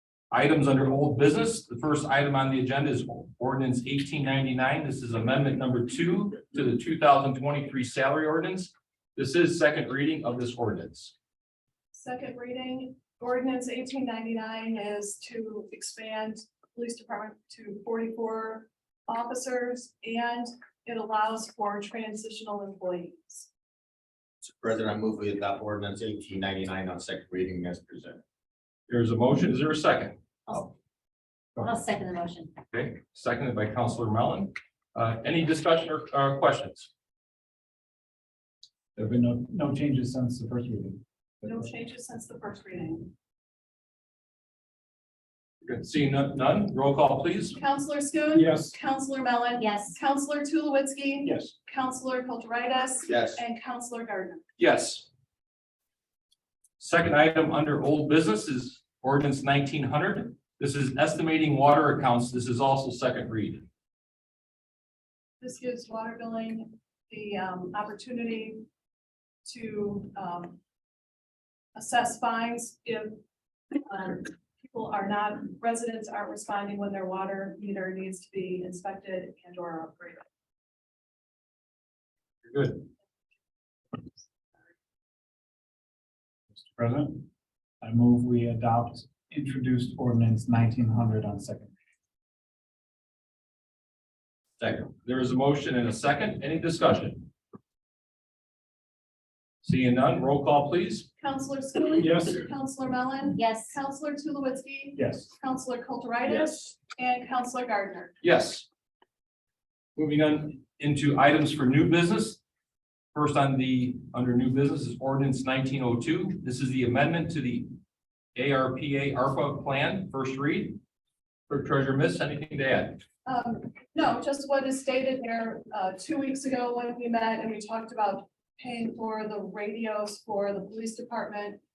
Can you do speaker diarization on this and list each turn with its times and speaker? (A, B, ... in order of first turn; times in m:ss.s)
0:00.3-0:11.1 A
0:11.9-0:23.5 B
0:24.4-0:28.2 C
0:28.9-0:30.2 A
0:30.5-0:30.7 D
0:31.6-0:32.6 D
0:32.7-0:36.9 A
0:39.0-0:41.7 E
0:41.4-0:43.1 B
0:45.6-0:47.6 A
0:47.6-0:54.4 B
0:48.3-0:48.7 E
0:49.6-0:50.0 D
0:51.3-0:51.5 E
0:53.1-0:53.4 C
0:54.6-0:55.1 A
0:56.8-1:03.6 A
1:05.4-1:08.7 B
1:09.4-1:10.6 B
1:11.8-1:13.2 B
1:13.8-1:20.3 B
1:22.5-1:22.9 A
1:26.5-1:27.3 E
1:27.8-1:31.7 E
1:34.8-1:37.3 A
1:39.6-1:41.1 A
1:41.2-1:48.1 B
1:42.0-1:42.4 E
1:43.3-1:43.8 D
1:45.0-1:45.3 E
1:46.3-1:46.7 C
1:48.2-1:48.7 A
1:50.0-1:52.4 A
1:53.1-1:57.7 A
1:58.4-2:00.8 A
2:01.5-2:03.0 A
2:03.2-2:11.6 B